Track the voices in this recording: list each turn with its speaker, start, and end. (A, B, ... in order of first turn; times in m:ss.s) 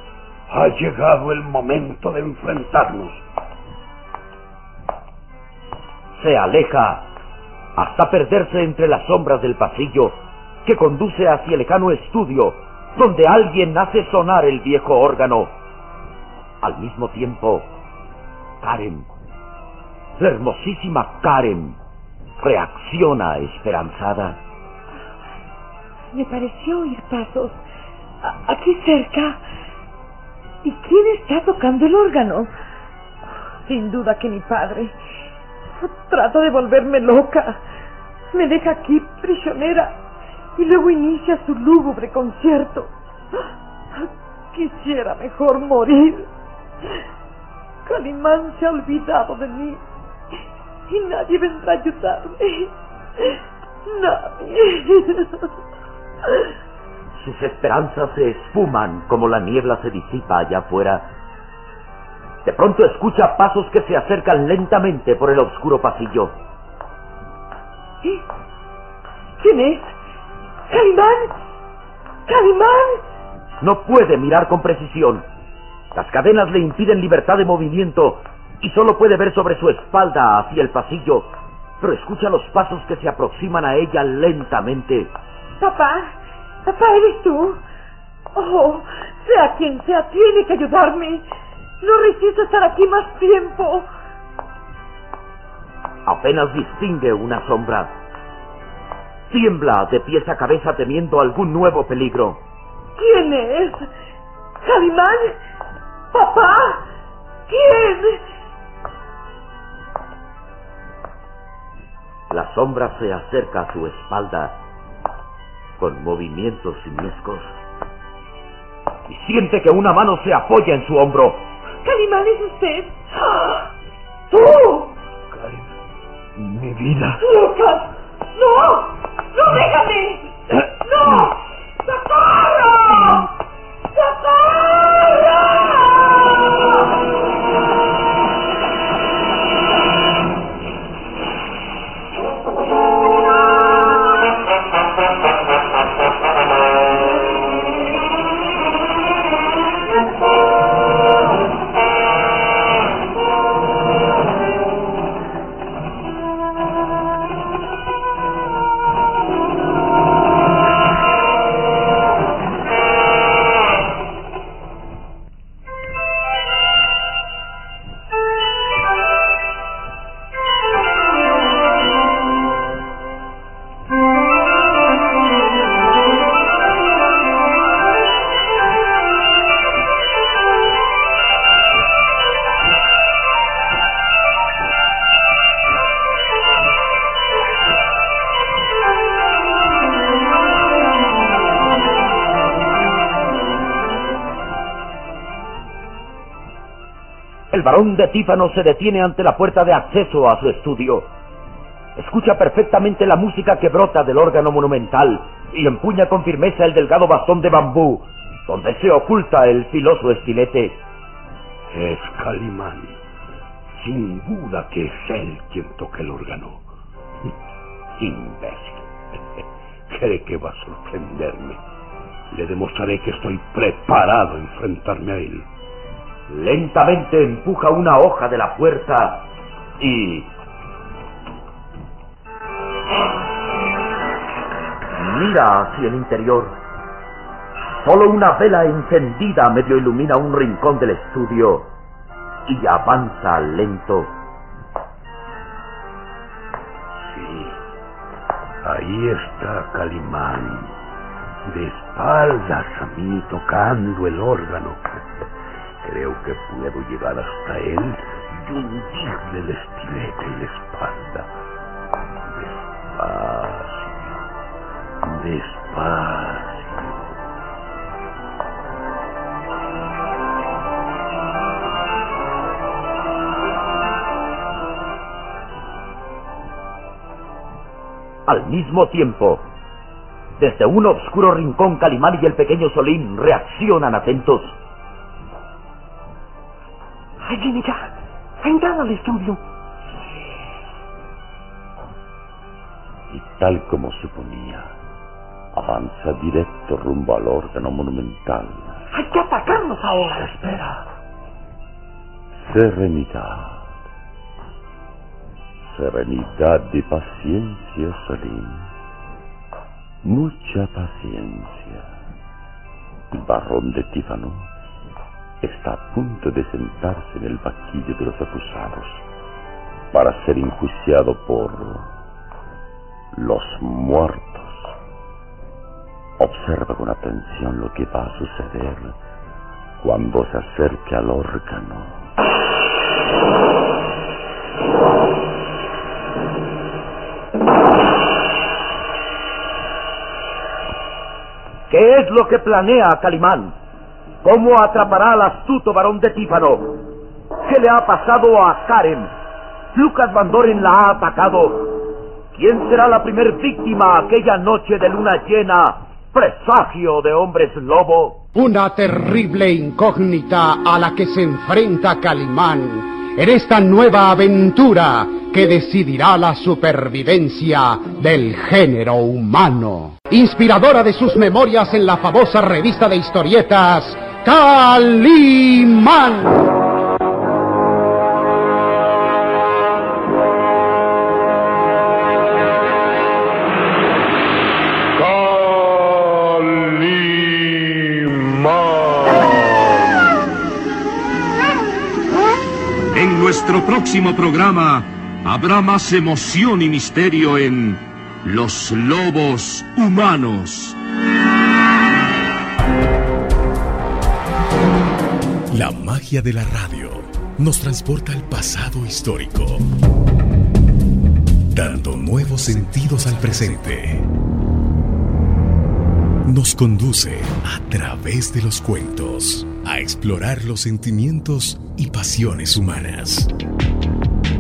0:00.5-0:03.2 A
0:06.2-0:07.1 B
0:07.8-0:15.6 B
0:16.6-0:17.7 B
0:18.6-0:19.1 B
0:20.2-0:21.8 B
0:22.4-0:24.4 B
0:26.1-0:27.6 C
0:28.2-0:29.4 C
0:30.6-0:32.5 C
0:33.6-0:34.9 C
0:35.8-0:37.6 C
0:38.3-0:40.0 C
0:40.6-0:42.9 C
0:43.9-0:46.3 C
0:47.8-0:49.8 C
0:50.9-0:55.5 C
0:57.2-1:01.1 B
1:02.4-1:06.4 B
1:09.4-1:09.9 C
1:10.7-1:11.4 C
1:12.3-1:13.0 C
1:13.6-1:15.3 B
1:15.9-1:25.1 B
1:25.6-1:27.6 C
1:28.3-1:31.2 C
1:31.8-1:33.9 C
1:36.1-1:38.0 B
1:39.3-1:42.4 B
1:43.0-1:43.9 C
1:44.6-1:45.4 C
1:46.1-1:46.9 C
1:47.5-1:48.2 C
1:52.3-1:54.6 B
1:55.8-1:57.5 B
1:59.1-2:01.5 B
2:01.8-2:03.6 C
2:04.3-2:04.9 C
2:05.3-2:05.7 D
2:06.4-2:07.2 D
2:07.2-2:13.2 C
2:13.9-2:15.9 C
3:17.5-3:21.1 B
3:22.0-3:30.8 B
3:31.7-3:33.0 A
3:33.8-3:36.7 A
3:38.0-3:38.8 B
3:38.0-3:38.4 A
3:39.4-3:41.6 A
3:42.3-3:45.5 A
3:46.3-3:49.3 B
3:49.8-3:50.3 B
3:54.9-3:56.6 B
3:57.8-4:01.7 B
4:02.5-4:04.1 B
4:07.0-4:07.6 A
4:08.6-4:10.7 A
4:11.4-4:15.3 A
4:15.8-4:21.3 A
4:22.3-4:24.2 A
4:25.0-4:27.1 A
4:38.3-4:39.5 B
4:40.4-4:44.6 B
4:47.2-4:49.4 D
4:53.1-4:54.7 E
4:55.5-4:58.8 E
4:58.9-5:00.9 D
5:02.4-5:03.7 E
5:05.7-5:08.7 E
5:10.0-5:11.9 E
5:13.1-5:14.5 E
5:15.4-5:19.0 E
5:19.9-5:21.9 E
5:23.1-5:24.7 E
5:26.2-5:29.0 E
5:29.8-5:32.1 E
5:41.7-5:43.6 B
5:44.2-5:46.9 B
5:47.4-5:49.1 B
5:49.7-5:58.2 B
5:58.4-6:16.5 F
6:25.0-6:29.9 G
6:32.9-6:40.8 G
6:45.5-6:49.6 H
6:51.5-6:54.1 H
6:56.2-7:03.3 H